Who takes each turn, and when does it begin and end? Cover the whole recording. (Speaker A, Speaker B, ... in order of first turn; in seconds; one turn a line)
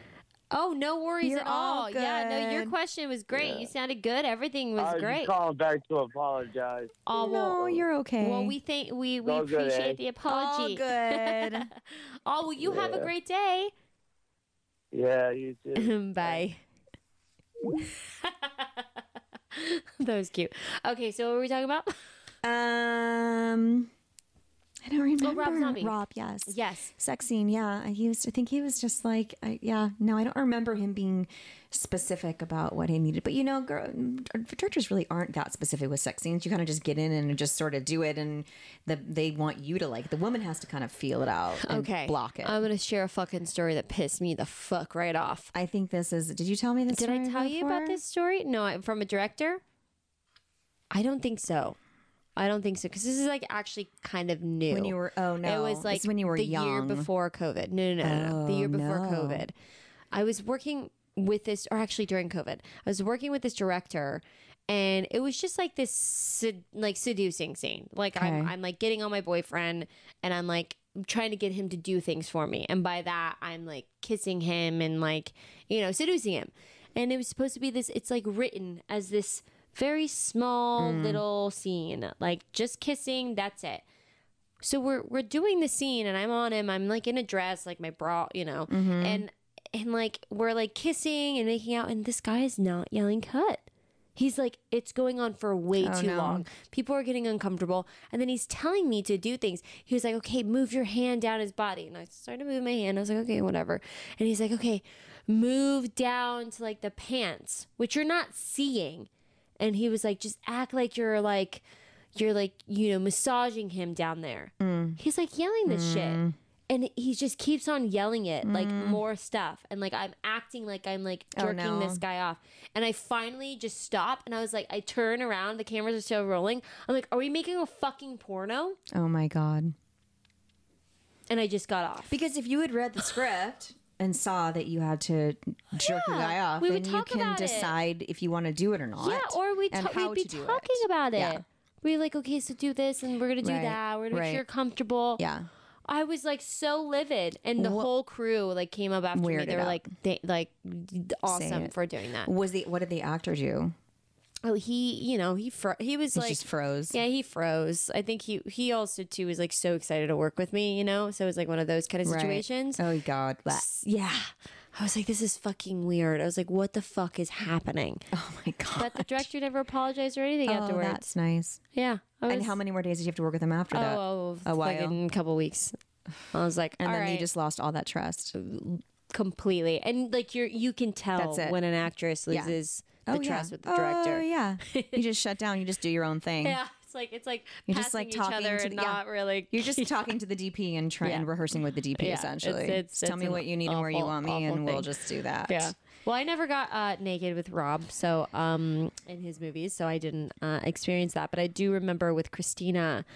Speaker A: 0.5-5.3
Speaker B: 1.2-2.7
Speaker C: 3.3-3.7
Speaker C: 4.8-7.1
Speaker A: 7.0-13.7
Speaker B: 7.2-8.6
Speaker C: 9.2-10.0
Speaker B: 10.3-11.7
Speaker C: 12.6-13.1
Speaker C: 14.9-16.4
Speaker A: 15.8-16.6
Speaker A: 18.1-18.8
Speaker A: 19.5-22.0
Speaker B: 22.4-23.9
Speaker B: 24.8-42.6
Speaker A: 25.2-26.9
Speaker A: 41.6-45.5
Speaker B: 45.5-48.0
Speaker A: 46.9-49.6
Speaker A: 50.9-51.8
Speaker A: 52.4-59.5
Speaker B: 54.7-57.1
Speaker B: 58.0-59.5
Speaker A: 60.1-83.8
Speaker B: 68.1-68.5
Speaker B: 80.8-81.2
Speaker A: 84.6-109.1
Speaker B: 88.7-89.2
Speaker B: 95.8-96.4
Speaker A: 109.6-128.8
Speaker B: 114.6-115.0
Speaker B: 115.7-116.3
Speaker B: 118.4-119.0
Speaker B: 121.3-122.0
Speaker B: 128.9-129.7
Speaker A: 131.3-132.2
Speaker B: 132.1-141.4
Speaker A: 135.8-137.7
Speaker A: 139.0-145.2
Speaker B: 143.4-144.4
Speaker B: 145.2-145.5
Speaker A: 145.9-152.3
Speaker B: 147.6-147.9
Speaker B: 149.1-149.9
Speaker B: 151.3-153.7
Speaker A: 154.4-162.8
Speaker B: 156.1-157.0
Speaker B: 162.0-163.7
Speaker A: 163.5-168.0
Speaker B: 168.1-169.3
Speaker A: 168.8-171.1
Speaker B: 170.4-171.6
Speaker A: 171.7-172.6
Speaker B: 172.3-175.0
Speaker A: 173.7-175.7
Speaker A: 176.3-177.3
Speaker B: 176.8-178.3
Speaker A: 178.3-185.0
Speaker B: 181.2-181.6
Speaker B: 182.3-186.6
Speaker A: 186.4-189.9
Speaker B: 187.7-195.7
Speaker A: 191.0-191.3
Speaker A: 192.0-194.9
Speaker A: 195.5-203.1